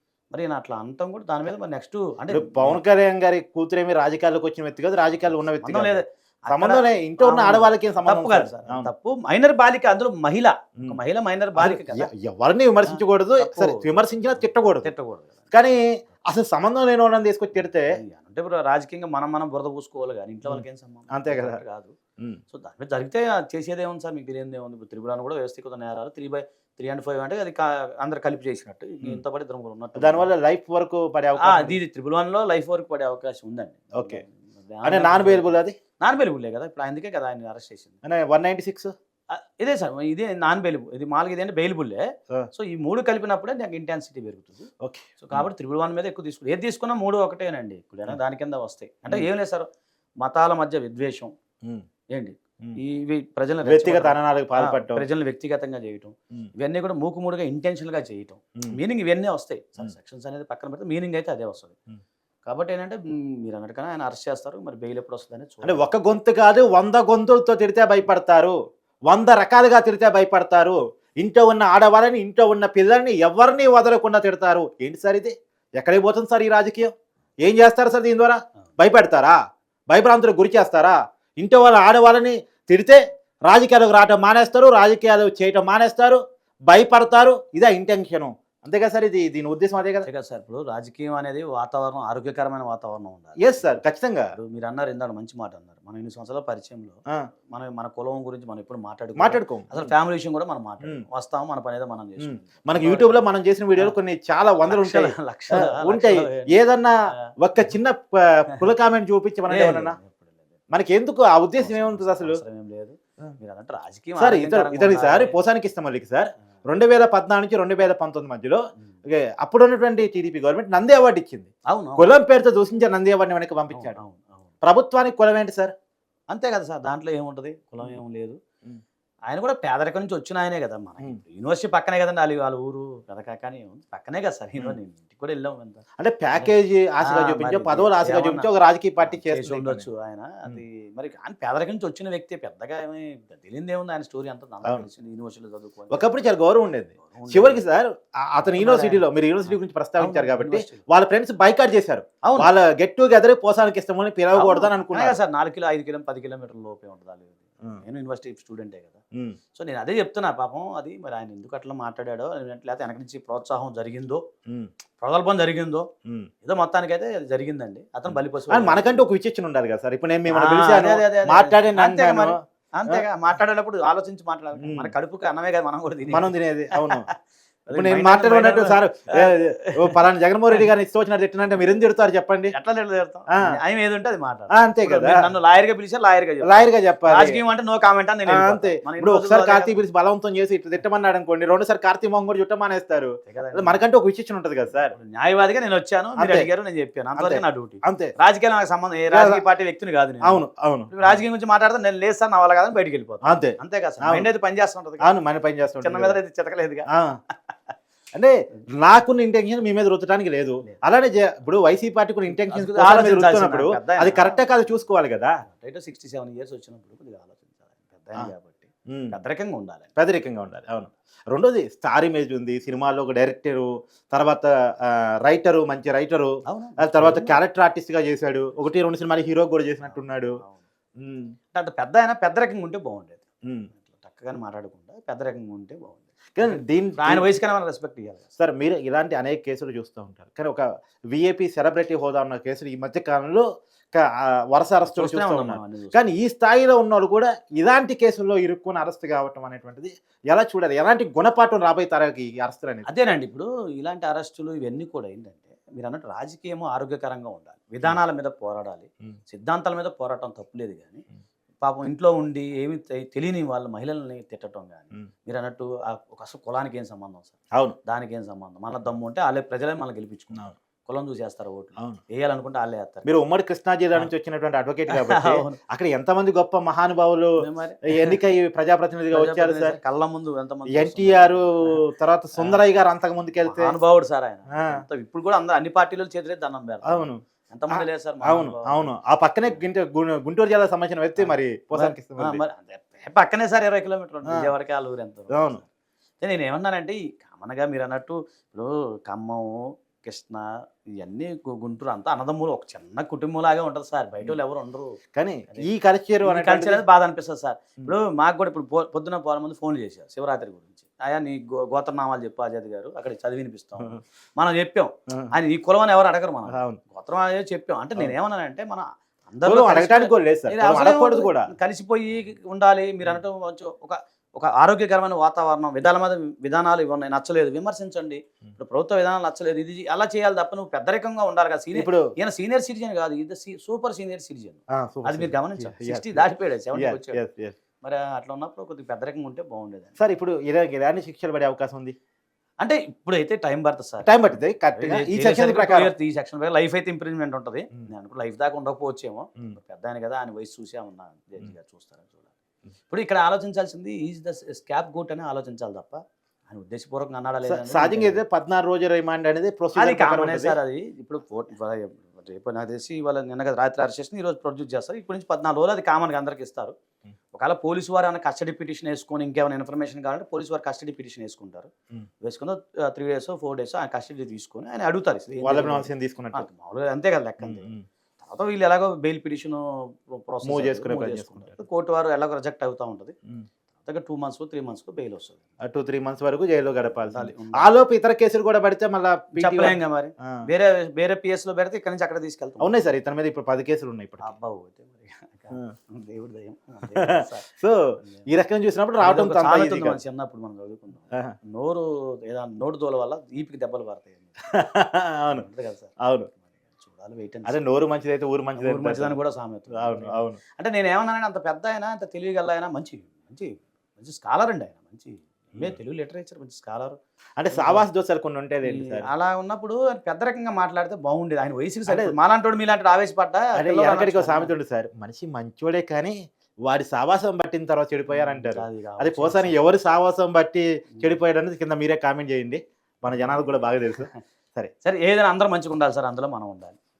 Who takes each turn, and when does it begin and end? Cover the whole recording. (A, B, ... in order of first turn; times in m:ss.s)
0:00.3-0:02.8 A
0:02.3-0:08.9 B
0:05.4-0:12.1 A
0:11.6-0:14.9 B
0:12.8-0:15.5 A
0:15.5-0:17.9 B
0:17.5-0:21.9 A
0:20.4-0:21.6 B
0:22.5-0:30.3 A
0:30.0-0:31.8 B
0:31.4-0:38.0 A
0:33.9-0:34.2 B
0:34.8-0:35.7 B
0:38.0-0:38.9 B
0:39.3-0:44.7 A
0:44.8-0:45.4 B
0:45.2-0:49.7 A
0:50.2-0:51.3 A
0:52.1-1:01.8 A
0:53.6-0:55.0 B
1:02.4-1:05.9 A
1:05.6-1:08.5 B
1:09.1-1:19.4 B
1:19.9-1:30.1 B
1:30.0-1:33.8 A
1:33.4-1:34.3 B
1:34.4-1:37.0 A
1:37.5-1:43.2 A
1:39.2-1:39.9 B
1:42.2-1:50.0 B
1:44.7-1:46.5 A
1:49.5-1:50.4 A
1:50.7-1:52.4 B
1:51.6-1:55.3 A
1:54.2-2:04.0 B
2:01.7-2:02.1 A
2:03.7-2:04.5 A
2:04.6-2:05.7 B
2:06.3-2:08.4 A
2:09.3-2:15.8 A
2:16.0-2:19.8 B
2:17.0-2:18.5 A
2:19.0-2:26.1 A
2:25.9-2:35.2 B
2:27.0-2:27.6 A
2:28.5-2:30.8 A
2:32.2-2:32.5 A
2:34.3-2:39.0 A
2:39.5-2:44.2 A
2:45.0-2:45.9 A
2:46.4-2:49.0 A
2:48.5-2:53.0 B
2:50.3-2:57.1 A
2:54.6-2:54.9 B
2:56.1-2:57.1 B
2:57.7-3:00.0 A
2:57.7-3:02.5 B
3:02.5-3:09.8 A
3:03.3-3:03.6 B
3:04.5-3:05.2 B
3:06.4-3:07.4 B
3:08.3-3:14.9 B
3:13.2-3:13.8 A
3:14.7-3:25.1 A
3:16.2-3:16.5 B
3:17.2-3:18.1 B
3:19.1-3:19.4 B
3:20.2-3:21.2 B
3:23.2-3:24.2 B
3:25.0-3:26.2 B
3:25.8-3:26.9 A
3:28.1-3:35.3 B
3:32.3-3:34.8 A
3:35.4-3:39.9 A
3:38.9-3:39.1 B
3:40.0-3:50.4 B
3:46.4-3:47.4 A
3:49.8-3:50.6 A
3:51.0-3:51.3 B
3:51.5-3:53.2 A
3:53.4-3:53.7 B
3:53.7-3:58.2 A
3:56.4-3:57.3 B
3:58.4-4:12.9 B
4:04.8-4:06.1 A
4:12.8-4:21.0 A
4:21.6-4:33.1 A
4:33.0-4:37.3 B
4:34.9-4:35.6 A
4:37.4-4:38.2 A
4:37.9-4:39.8 B
4:39.1-4:41.8 A
4:40.7-4:43.7 B
4:43.4-4:48.9 A
4:44.5-4:44.8 B
4:46.8-4:52.4 B
4:51.2-4:55.6 A
4:55.3-4:55.6 B
4:56.2-5:05.0 A
5:05.1-5:06.8 B
5:06.2-5:37.2 A
5:16.5-5:16.8 B
5:19.4-5:21.5 B
5:31.7-5:32.1 B
5:34.7-5:37.5 B
5:37.8-5:40.0 A
5:40.0-5:41.9 B
5:42.6-5:52.3 A
5:44.0-5:45.9 B
5:52.9-5:58.2 A
5:57.4-6:00.6 B
5:59.7-6:06.7 A
6:07.3-6:11.7 A
6:12.2-6:23.1 A
6:15.4-6:16.5 B
6:17.4-6:17.8 B
6:20.4-6:21.6 B
6:23.8-6:25.4 A
6:25.6-6:30.4 B
6:26.9-6:27.7 A
6:29.4-6:32.8 A
6:32.6-6:34.3 B
6:34.2-6:37.4 A
6:36.9-6:40.0 B
6:39.0-6:44.5 A
6:44.5-6:45.4 B
6:45.3-6:47.6 A
6:46.0-6:46.3 B
6:47.4-6:49.2 B
6:48.6-6:57.0 A
6:49.7-6:50.4 B
6:57.4-6:59.1 B
6:57.5-6:57.8 A
6:58.6-7:04.5 A
7:01.9-7:02.1 B
7:03.6-7:14.7 B
7:08.1-7:09.6 A
7:13.1-7:14.2 A
7:14.8-7:16.8 A